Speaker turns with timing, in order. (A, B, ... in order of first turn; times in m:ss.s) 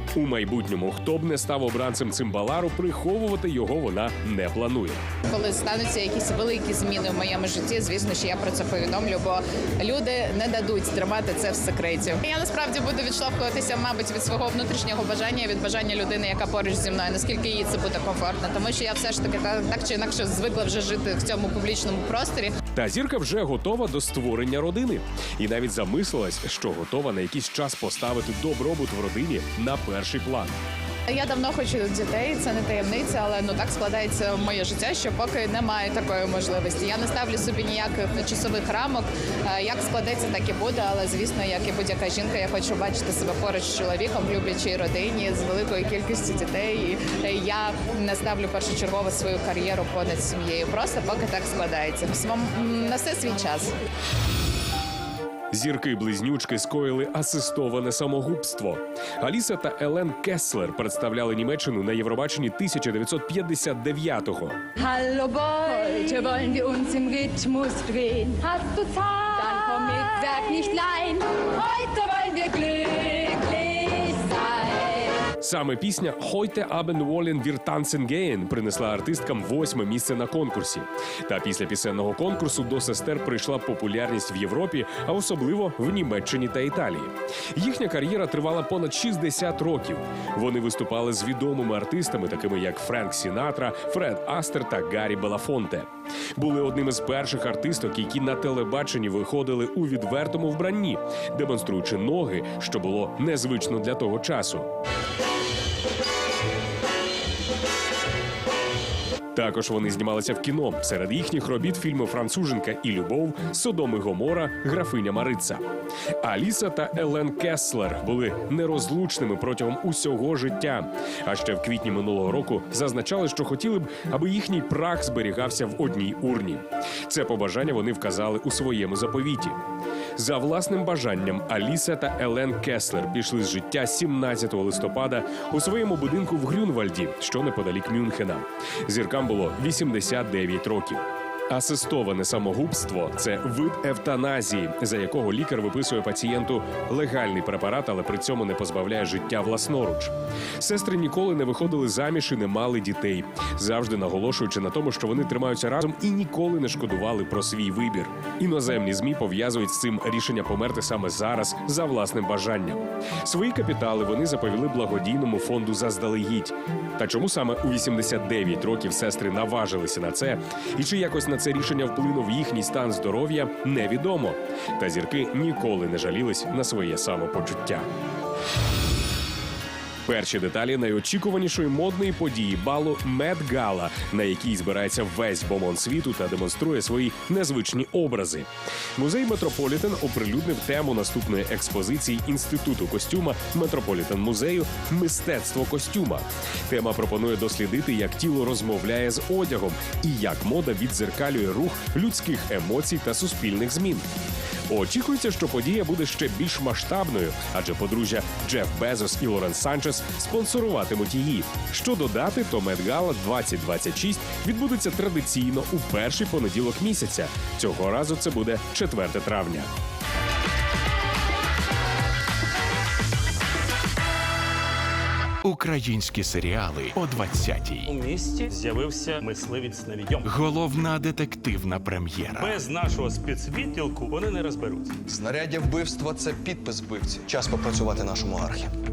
0:00.1-0:05.0 A
0:05.3-0:22.5 B
0:22.7-0:30.6 A
0:31.1-0:53.7 B
0:55.5-1:04.6 A
1:04.8-1:15.2 C
1:15.4-1:44.7 A
1:49.3-1:55.6 A
1:56.2-2:09.6 A
2:10.2-2:57.8 A
3:00.0-3:24.0 A
3:24.7-3:39.7 A
3:45.4-3:47.9 D
3:47.8-3:50.2 E
3:50.2-3:52.6 D
3:52.4-3:55.0 E
3:55.1-3:58.7 F